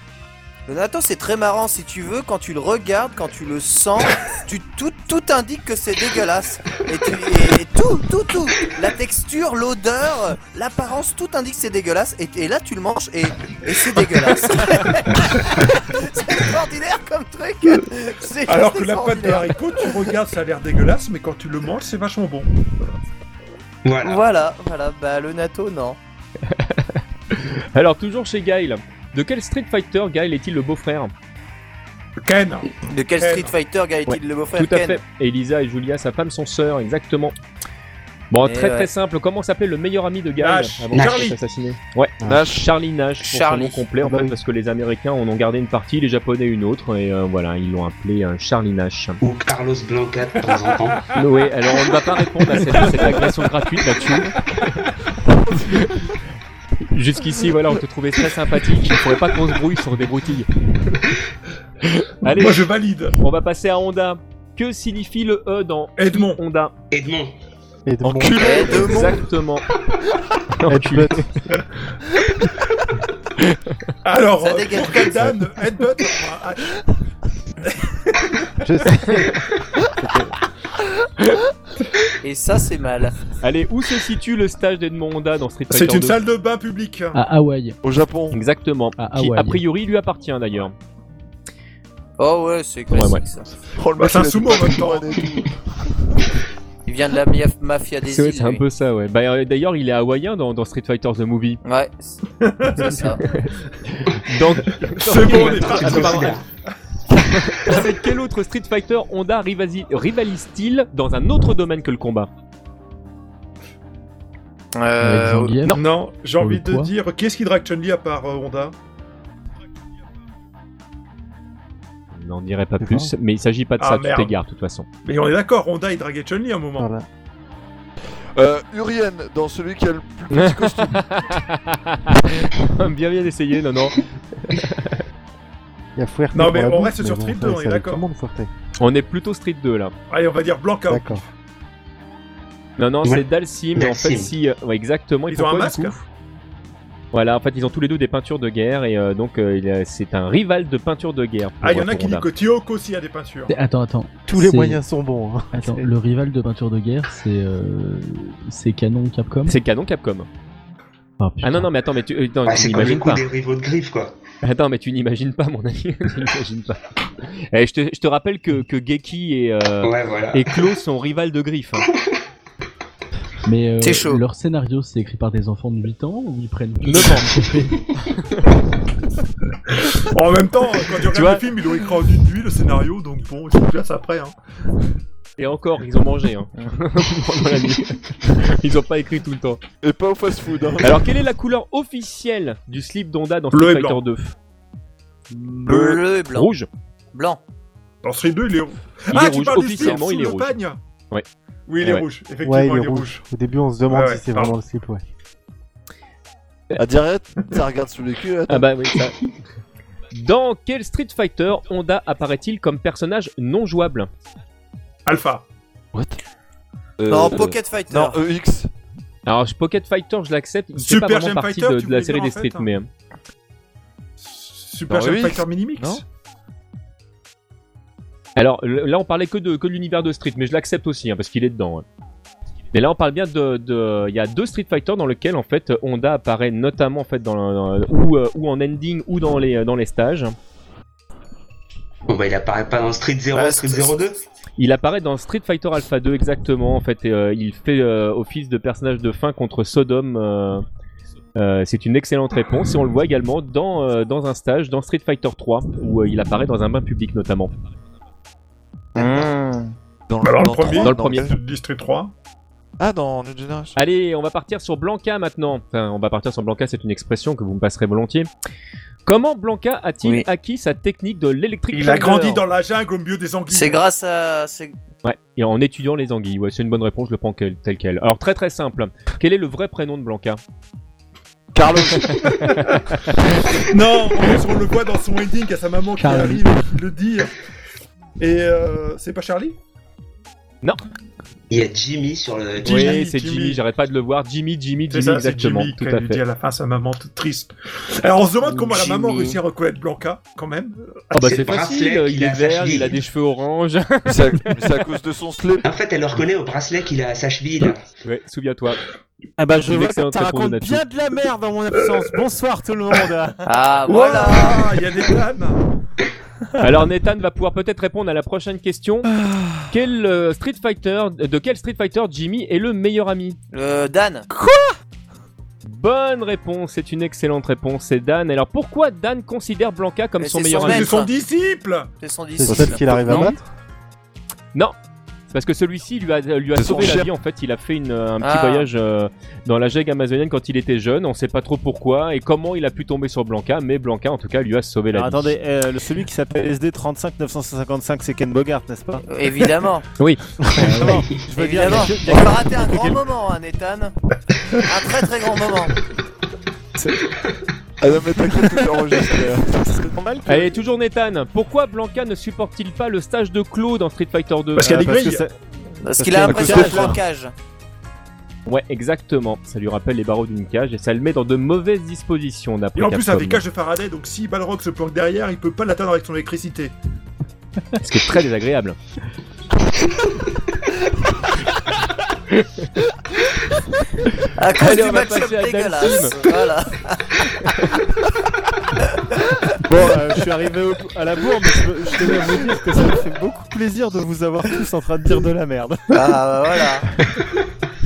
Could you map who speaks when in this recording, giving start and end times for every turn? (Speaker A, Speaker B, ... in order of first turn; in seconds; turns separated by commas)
Speaker A: 0.7-20.0, Speaker B: 18.5-22.5, Speaker C: 23.8-24.2, Speaker A: 24.0-26.0, Speaker D: 26.5-31.1, Speaker B: 32.2-33.5, Speaker A: 32.9-35.0, Speaker D: 34.1-37.3, Speaker D: 38.3-49.2, Speaker A: 38.4-38.9, Speaker B: 40.4-41.4, Speaker C: 40.9-41.3, Speaker E: 42.2-42.7, Speaker A: 43.2-43.8, Speaker F: 44.0-44.4, Speaker C: 49.2-51.1, Speaker D: 51.1-54.4, Speaker D: 55.7-56.1, Speaker D: 56.9-61.1, Speaker D: 61.8-66.7, Speaker B: 62.2-63.2, Speaker B: 66.0-66.4, Speaker C: 66.9-67.3, Speaker F: 67.8-68.9, Speaker E: 68.0-69.1, Speaker A: 68.4-69.2, Speaker D: 68.6-69.7, Speaker D: 70.5-71.3, Speaker F: 70.7-71.3, Speaker D: 73.4-73.8, Speaker B: 74.0-76.8, Speaker A: 74.4-75.3, Speaker B: 77.6-78.3, Speaker F: 78.6-79.4, Speaker F: 80.0-80.3, Speaker A: 82.2-83.2, Speaker D: 83.4-86.2, Speaker B: 85.7-87.2, Speaker G: 87.1-87.8, Speaker E: 87.8-88.4, Speaker D: 88.3-90.7, Speaker G: 89.0-89.6, Speaker A: 92.2-93.6, Speaker D: 92.9-93.2, Speaker E: 93.7-95.6, Speaker B: 94.0-95.2, Speaker A: 96.8-98.6, Speaker D: 98.1-101.6, Speaker A: 101.6-102.2, Speaker B: 102.4-103.1, Speaker A: 102.8-103.2, Speaker D: 103.0-106.4, Speaker B: 104.8-106.4, Speaker C: 105.1-106.4, Speaker D: 107.3-112.3, Speaker A: 114.7-115.6, Speaker G: 115.0-116.9, Speaker B: 115.7-118.7, Speaker D: 122.1-124.9, Speaker F: 122.8-123.1, Speaker B: 123.8-124.3, Speaker B: 125.0-126.9, Speaker F: 126.8-127.1, Speaker E: 128.3-131.1, Speaker D: 130.3-135.0, Speaker F: 135.9-138.5, Speaker B: 136.3-138.0, Speaker D: 138.8-139.9, Speaker B: 140.1-141.3, Speaker F: 140.9-141.2, Speaker D: 142.8-145.9, Speaker C: 143.0-144.3, Speaker B: 145.3-146.0, Speaker D: 147.1-152.3, Speaker B: 151.6-153.5, Speaker G: 153.5-154.8, Speaker F: 154.3-155.9, Speaker G: 155.5-159.6, Speaker D: 159.4-160.3, Speaker G: 161.2-161.7, Speaker D: 161.4-163.2, Speaker C: 162.4-164.1, Speaker D: 164.4-171.9, Speaker C: 169.8-170.6, Speaker G: 173.4-178.0, Speaker A: 173.8-174.2, Speaker D: 176.8-177.3, Speaker B: 179.7-184.3, Speaker D: 181.1-181.4, Speaker D: 185.4-189.6, Speaker E: 189.8-191.1, Speaker D: 190.8-194.3, Speaker B: 193.5-194.0, Speaker A: 195.6-196.5, Speaker E: 195.7-196.0, Speaker D: 196.3-196.7, Speaker A: 197.1-197.4, Speaker B: 198.0-200.8, Speaker D: 199.1-200.6, Speaker B: 201.7-203.2, Speaker F: 202.4-205.0, Speaker B: 203.9-204.5, Speaker E: 206.8-208.7, Speaker D: 208.5-209.3, Speaker D: 210.1-214.1, Speaker B: 215.1-215.4, Speaker E: 215.9-216.2, Speaker E: 217.0-218.7, Speaker A: 217.1-218.2, Speaker D: 219.2-222.9, Speaker B: 220.8-222.7, Speaker B: 224.2-226.0, Speaker E: 224.9-226.0, Speaker D: 228.3-231.8, Speaker D: 232.7-240.3, Speaker C: 242.1-244.2, Speaker A: 243.3-244.0, Speaker D: 244.6-250.6, Speaker D: 251.3-257.5, Speaker A: 258.9-259.7, Speaker E: 259.0-259.3, Speaker E: 260.1-261.4, Speaker B: 260.2-262.1, Speaker D: 260.7-261.2, Speaker E: 262.8-263.8, Speaker D: 263.7-268.3, Speaker D: 269.1-272.4, Speaker B: 271.7-273.8, Speaker A: 273.5-274.8, Speaker D: 275.0-280.4, Speaker E: 281.5-282.4, Speaker D: 281.9-283.2, Speaker B: 282.4-283.0, Speaker B: 283.6-287.3, Speaker G: 286.0-286.8, Speaker B: 288.2-289.6, Speaker C: 291.5-293.0, Speaker B: 292.6-293.6, Speaker D: 292.6-296.2, Speaker B: 294.9-301.0, Speaker A: 298.4-299.4, Speaker D: 301.1-304.5, Speaker C: 301.2-303.0, Speaker E: 304.1-305.6, Speaker C: 305.6-307.8, Speaker D: 308.0-308.8, Speaker H: 309.4-313.5, Speaker D: 309.6-310.8, Speaker A: 313.4-314.8, Speaker B: 313.9-315.6, Speaker D: 316.6-319.1, Speaker D: 319.7-323.4, Speaker A: 323.5-324.3, Speaker D: 325.6-330.9, Speaker A: 330.2-331.1, Speaker B: 330.6-331.9, Speaker A: 332.0-333.4, Speaker F: 332.4-333.4, Speaker B: 332.6-333.2, Speaker D: 335.3-345.3, Speaker E: 336.5-337.1, Speaker A: 338.2-338.7, Speaker H: 344.9-349.0, Speaker A: 349.1-349.9, Speaker H: 350.6-353.1, Speaker G: 350.6-351.2, Speaker A: 351.4-353.9, Speaker A: 354.5-355.8, Speaker E: 357.8-359.9, Speaker H: 359.8-360.6, Speaker D: 360.3-364.9, Speaker B: 364.6-365.3, Speaker H: 364.6-365.3, Speaker A: 365.8-367.3, Speaker H: 365.9-367.0, Speaker E: 366.2-367.0, Speaker D: 368.4-373.4, Speaker B: 372.7-376.7, Speaker D: 377.8-378.8, Speaker D: 382.3-382.7, Speaker A: 384.3-387.3, Speaker D: 384.5-386.2, Speaker H: 389.7-396.1, Speaker A: 395.9-396.9